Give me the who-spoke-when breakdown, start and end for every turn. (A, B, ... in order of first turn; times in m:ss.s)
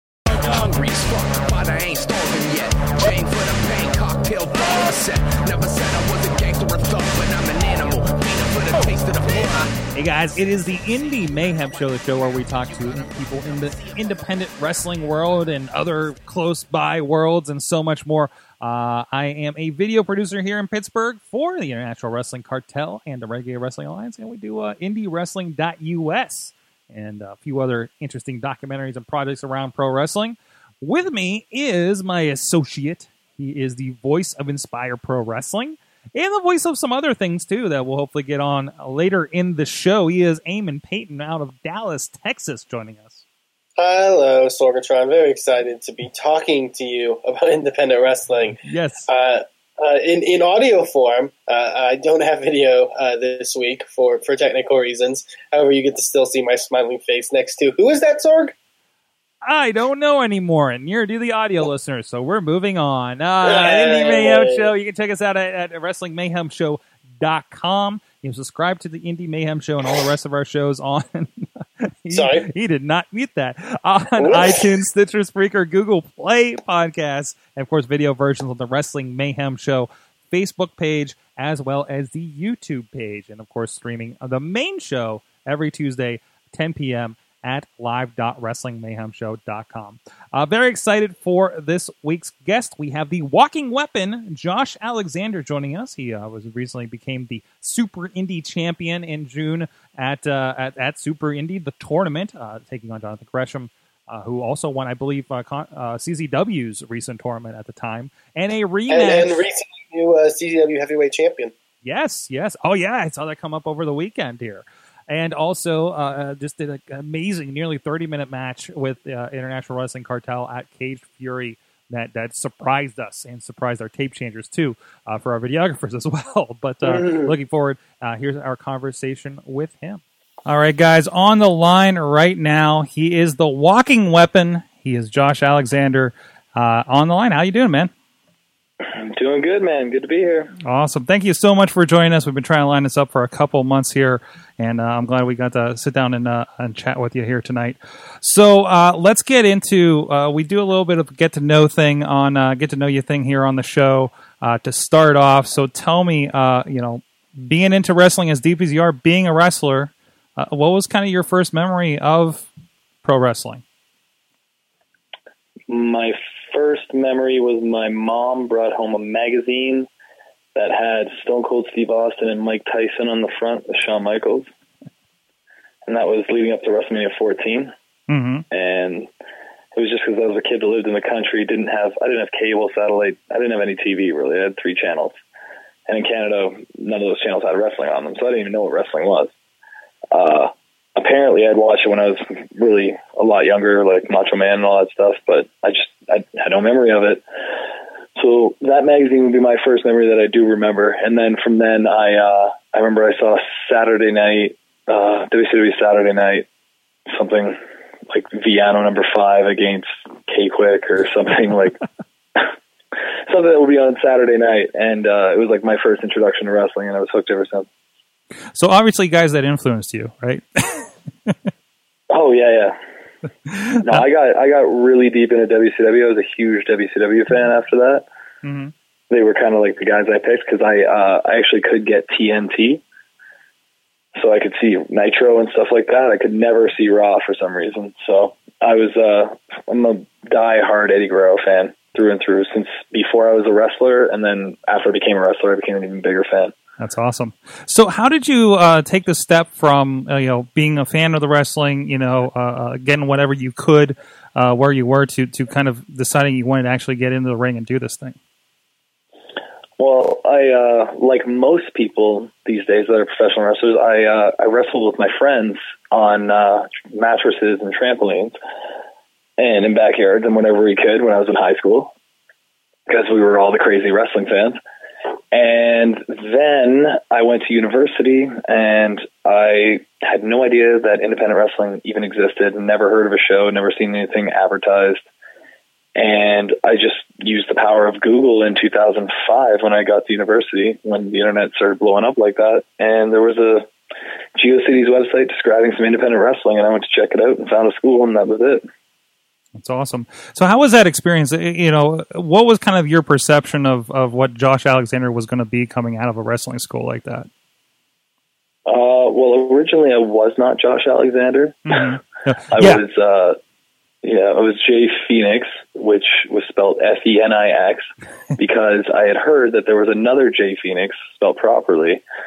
0:00.3-0:09.8 A
0:10.0-0:43.2 B
0:12.7-0:13.0 A
0:43.8-0:58.5 C
0:48.6-0:49.1 B
0:59.4-1:49.4 B
1:03.4-1:04.7 C
1:12.1-1:12.5 C
1:14.2-1:14.6 C
1:48.9-1:51.5 C
1:51.8-2:17.9 B
2:06.8-2:07.3 C
2:18.8-2:20.5 D
2:20.6-2:42.5 B
2:43.0-2:43.6 B
2:45.7-2:49.9 D
2:50.6-2:54.5 D
2:55.9-2:57.7 D
2:58.1-2:58.4 B
2:58.5-2:59.1 D
2:59.7-3:05.1 D
3:05.9-3:09.3 D
3:10.1-3:17.2 D
3:18.2-3:26.5 D
3:27.1-3:27.6 D
3:28.1-3:31.8 D
3:33.3-3:37.7 D
3:38.5-3:41.4 B
3:42.1-3:42.8 D
3:43.5-3:44.0 B
3:43.8-3:48.0 D
3:48.4-3:48.7 B
3:49.1-3:52.8 D
3:54.2-4:06.5 D
4:06.8-4:18.2 B
4:19.8-4:28.3 D
4:29.4-4:31.9 D
4:32.9-4:34.6 D
4:35.3-4:45.0 D
4:46.0-4:53.7 D
4:54.4-4:58.6 D
4:59.6-5:07.3 B
5:08.7-5:11.9 D
5:11.7-5:12.8 B
5:12.5-5:13.4 D
5:14.0-5:22.0 D